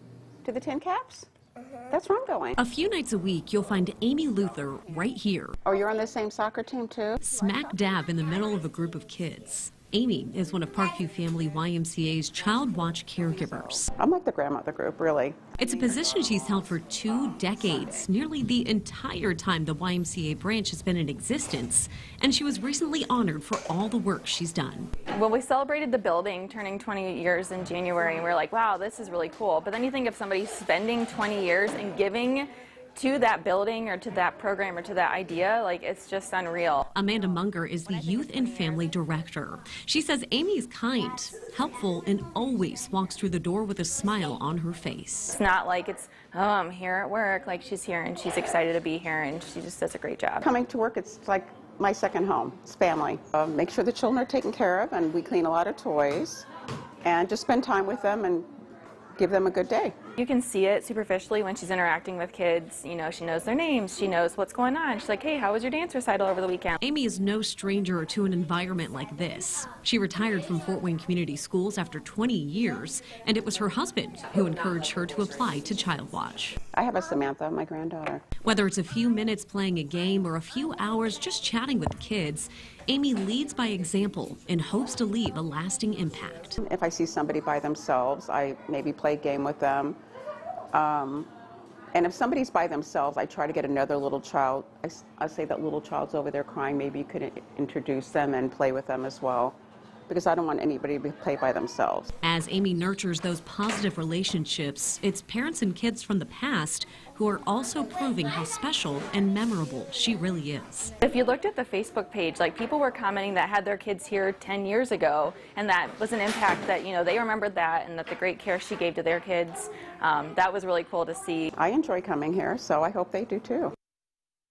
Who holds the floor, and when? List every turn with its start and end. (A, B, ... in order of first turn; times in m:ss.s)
0:00.4-0:01.3 A
0:01.9-0:02.6 A
0:02.6-0:05.6 B
0:05.6-0:07.2 A
0:07.2-0:13.9 B
0:14.0-0:15.4 A
0:15.6-0:24.9 B
0:25.1-0:36.9 C
0:36.9-0:45.4 B
0:45.3-0:50.5 C
0:50.4-0:56.5 A
0:57.0-0:58.5 A
0:59.2-0:59.9 A
1:00.2-1:06.8 C
1:06.8-1:16.6 B
1:16.7-1:18.2 A
1:18.4-1:26.6 B
1:26.6-1:30.0 A
1:30.7-1:31.3 A
1:31.9-1:39.6 A
1:40.1-1:42.1 A
1:42.2-1:50.9 B
1:51.0-2:01.5 C
2:01.6-2:03.7 A